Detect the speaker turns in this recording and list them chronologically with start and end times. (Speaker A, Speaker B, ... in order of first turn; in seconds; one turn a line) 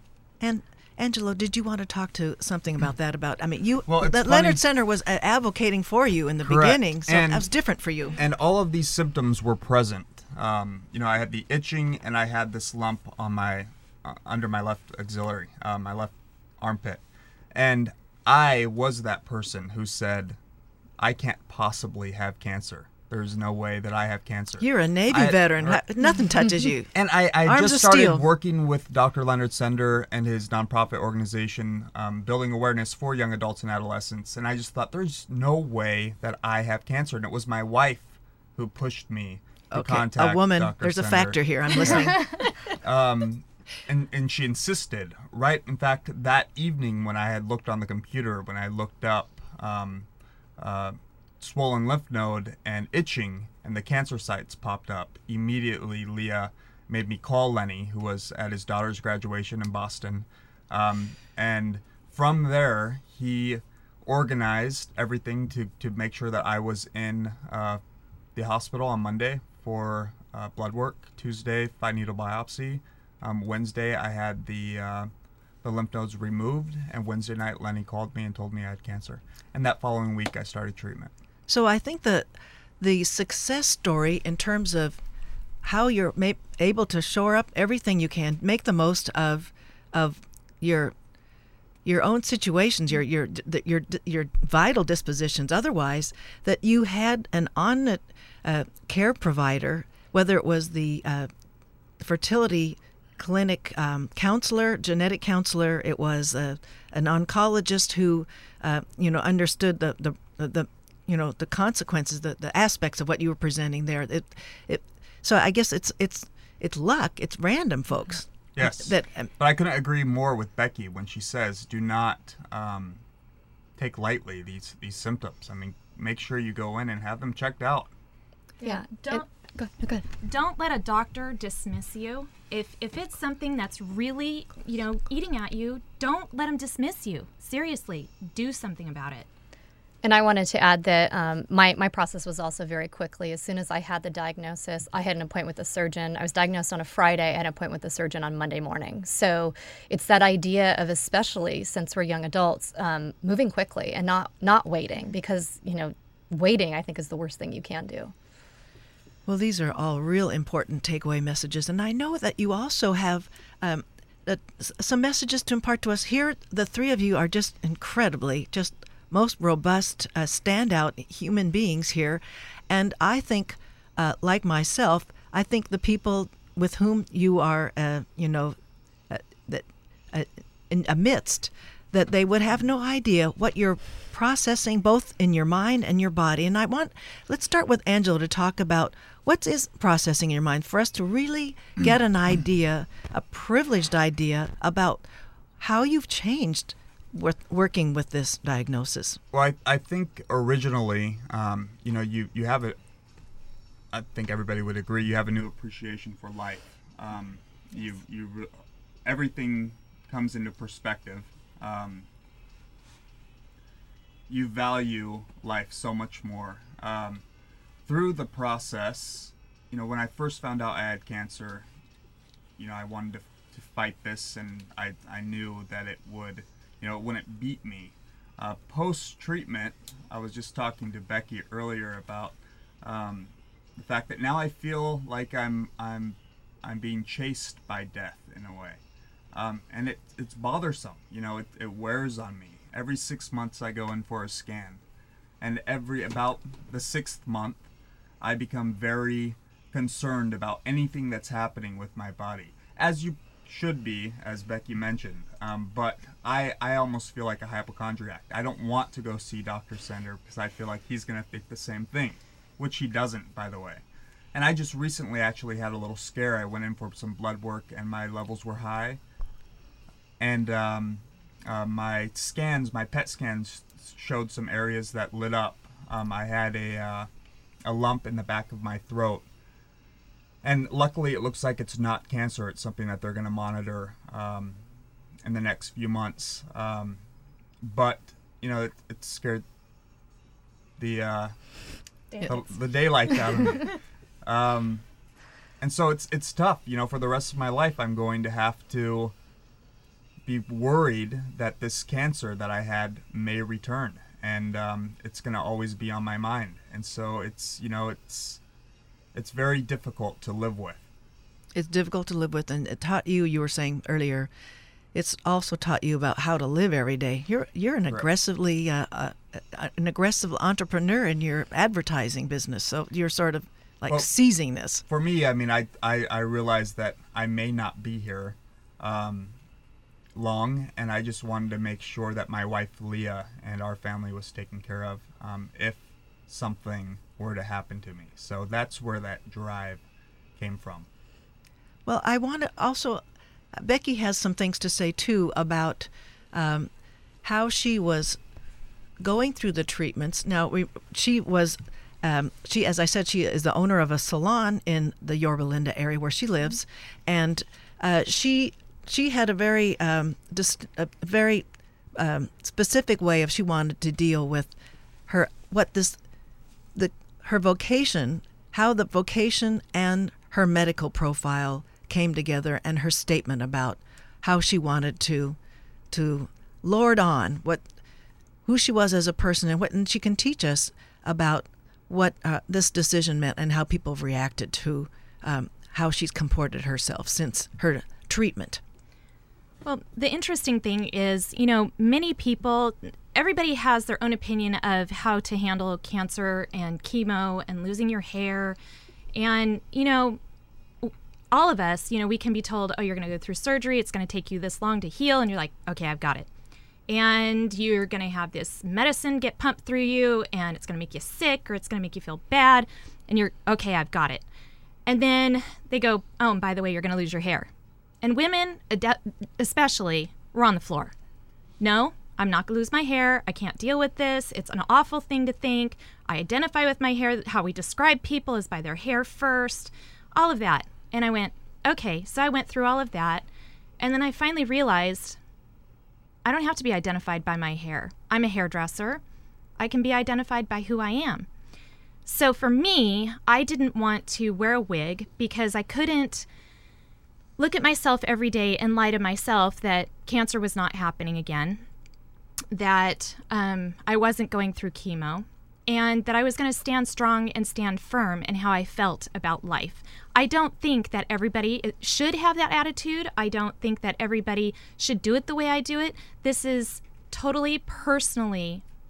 Speaker A: 0.4-8.2
Speaker B: 3.9-4.6
Speaker B: 6.4-7.5
Speaker B: 8.2-20.4
Speaker B: 21.0-25.8
Speaker A: 24.6-26.9
Speaker B: 26.9-42.3
Speaker A: 27.4-28.2
Speaker A: 39.7-42.2
Speaker B: 42.8-50.1
Speaker B: 50.6-67.8
Speaker B: 68.3-75.1
Speaker B: 75.6-81.1
Speaker A: 81.5-82.3
Speaker A: 82.8-85.0
Speaker A: 85.6-90.9
Speaker A: 91.8-101.3
Speaker A: 102.0-119.3
Speaker B: 118.5-123.0
Speaker B: 123.8-127.9
Speaker C: 128.6-129.2
Speaker D: 128.6-130.0
Speaker C: 130.2-139.3
Speaker D: 140.0-158.1
Speaker A: 159.2-178.6
Speaker A: 179.1-195.1
Speaker A: 195.6-199.2
Speaker B: 199.3-202.8
Speaker B: 203.9-208.5
Speaker B: 209.0-212.1
Speaker B: 214.3-217.2
Speaker B: 217.8-221.7
Speaker B: 222.6-238.8
Speaker B: 239.3-244.8
Speaker B: 245.4-247.7
Speaker B: 248.2-269.0
Speaker B: 270.2-277.1
Speaker B: 277.6-279.2
Speaker B: 280.4-284.6
Speaker B: 285.2-287.0
Speaker B: 287.6-289.4
Speaker B: 290.8-291.3
Speaker B: 292.2-293.7
Speaker B: 294.2-294.8
Speaker B: 295.6-299.1
Speaker B: 300.2-308.4
Speaker B: 309.1-310.9
Speaker A: 311.5-314.3
Speaker A: 314.9-324.8
Speaker B: 324.9-329.4
Speaker B: 330.1-339.8
Speaker B: 340.4-340.9
Speaker A: 341.9-343.0
Speaker A: 343.5-346.7
Speaker A: 347.2-348.2
Speaker A: 349.0-364.5
Speaker A: 365.1-366.0
Speaker A: 366.7-375.4
Speaker A: 375.9-377.6
Speaker A: 378.4-388.6
Speaker C: 389.6-398.6
Speaker C: 399.1-400.2
Speaker C: 400.8-406.3
Speaker C: 406.9-414.2
Speaker C: 414.9-417.5
Speaker C: 418.0-420.9
Speaker C: 421.6-433.2
Speaker C: 433.8-435.2
Speaker C: 436.2-439.0
Speaker C: 439.6-441.3
Speaker C: 442.1-446.3
Speaker C: 447.4-451.6
Speaker C: 452.5-468.6